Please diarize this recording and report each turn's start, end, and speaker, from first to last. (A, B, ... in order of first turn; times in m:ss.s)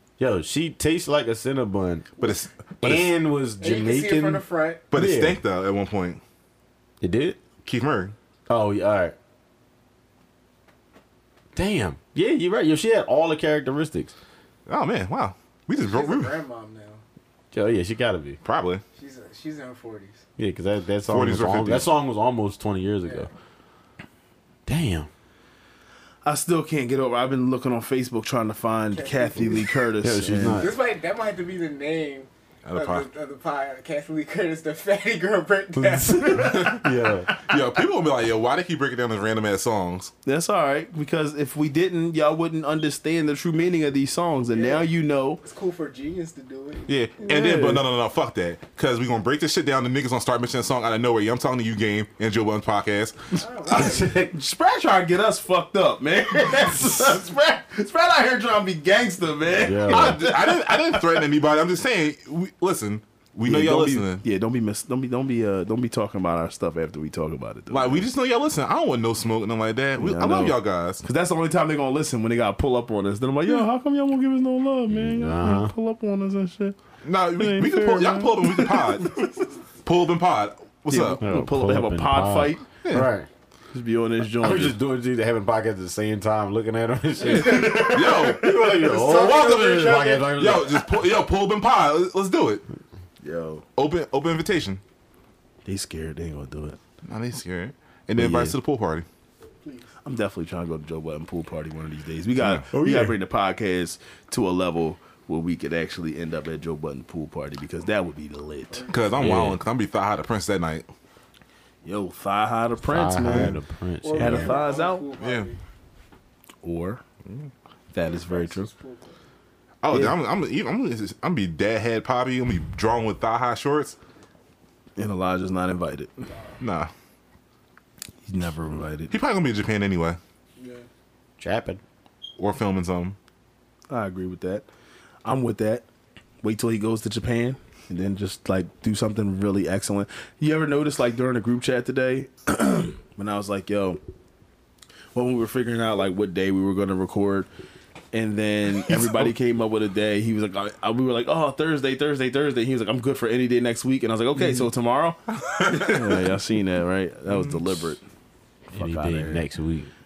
0:00.2-0:02.1 A
0:02.2-0:03.1 B
0:02.8-0:05.4 A
0:03.6-0:04.8 C
0:04.9-0:06.2 B
0:07.0-0:07.4 A
0:07.6-0:08.2 B
0:08.5-0:09.2 A
0:11.6-0:14.1 A
0:14.7-0:16.4 B
0:15.8-0:17.0 C
0:17.5-0:18.4 A
0:18.4-0:18.8 B
0:19.0-0:20.2 C
0:20.4-0:23.3 A
0:21.1-0:21.9 B
0:24.7-0:25.1 A
0:26.2-0:30.7 D
0:28.9-0:29.8 C
0:30.0-0:30.7 A
0:30.4-0:36.8 C
0:32.7-0:33.1 B
0:35.8-0:37.3 A
0:36.4-0:36.8 B
0:37.5-0:40.1 B
0:40.2-0:45.4 D
0:44.5-0:44.9 C
0:45.4-0:47.3 C
0:46.9-0:53.2 B
0:47.3-0:47.8 D
0:53.3-0:54.2 C
0:53.7-0:54.3 A
0:53.8-1:01.2 D
0:59.6-1:00.2 A
0:59.9-1:04.2 B
1:03.4-1:08.1 D
1:07.7-1:11.0 B
1:10.0-1:16.8 D
1:14.9-1:15.7 A
1:17.0-1:19.2 B
1:17.4-1:19.1 D
1:19.8-1:21.2 B
1:20.9-1:22.7 D
1:21.2-1:23.3 A
1:22.8-1:23.1 B
1:23.7-1:24.8 D
1:24.4-1:30.8 A
1:27.2-1:28.7 B
1:27.3-1:30.3 C
1:29.3-1:32.6 B
1:33.2-1:33.7 D
1:33.8-1:34.8 B
1:35.6-1:36.8 D
1:37.0-1:39.1 B
1:38.2-1:38.6 D
1:40.0-1:48.9 D
1:42.4-1:42.7 B
1:48.7-1:49.3 C
1:48.9-1:50.9 B
1:49.2-1:49.6 A
1:51.8-1:53.6 D
1:52.8-1:54.6 A
1:54.0-1:55.6 C
1:54.2-1:55.1 D
1:55.2-1:55.5 B
1:56.6-1:57.0 D
1:57.9-1:58.7 D
1:58.0-1:59.2 C
1:59.8-2:04.0 B
1:59.9-2:00.2 D
2:05.0-2:06.3 D
2:06.6-2:06.9 B
2:08.2-2:09.2 D
2:09.1-2:10.2 B
2:10.6-2:10.8 C
2:11.4-2:11.8 A
2:12.4-2:13.2 B
2:13.9-2:14.6 D
2:15.2-2:15.8 D
2:16.4-2:24.0 D
2:25.1-2:27.5 D
2:28.1-2:38.0 D
2:35.4-2:36.3 B
2:37.3-2:37.7 B
2:38.7-2:39.5 D
2:38.7-2:39.9 A